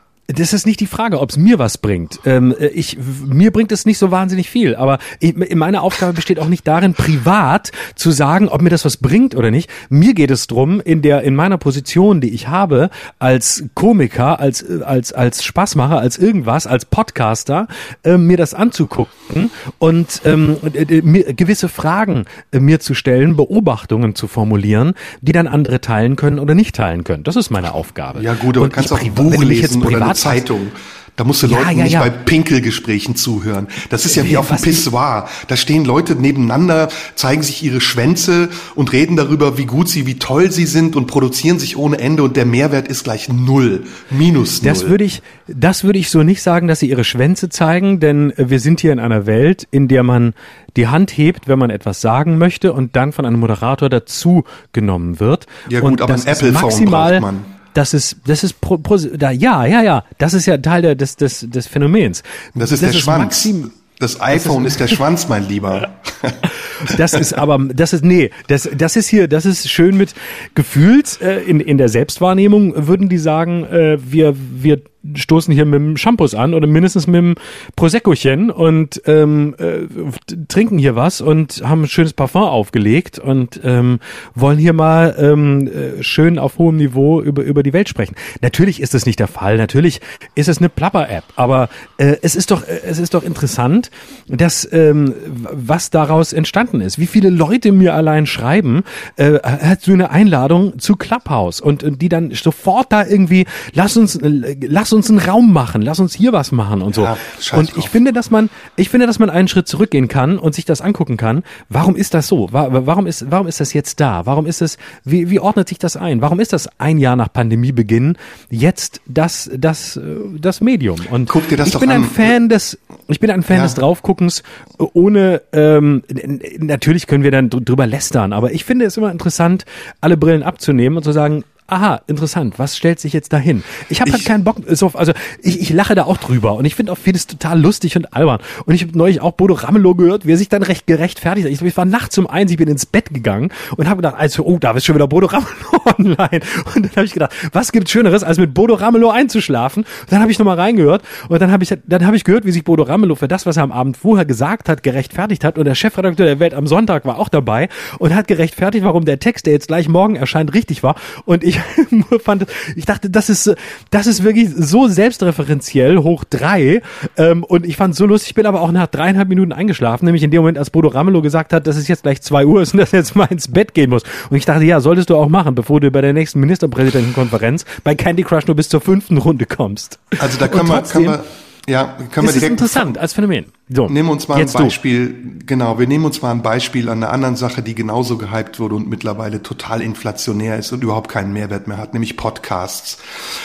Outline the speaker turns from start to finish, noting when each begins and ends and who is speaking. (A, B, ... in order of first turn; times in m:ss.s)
0:00.3-0:30.5 A
0:28.2-0:45.0 B
0:31.4-0:32.1 A
0:34.1-0:34.8 A
0:44.6-1:03.8 A
0:55.7-0:57.5 B
1:02.6-1:07.2 B
1:04.3-1:05.0 A
1:06.8-3:01.2 A
1:46.9-1:47.9 B
2:01.3-2:02.3 B
2:03.5-2:03.8 B
3:00.2-3:03.0 B
3:02.2-3:04.8 A
3:03.9-3:13.0 B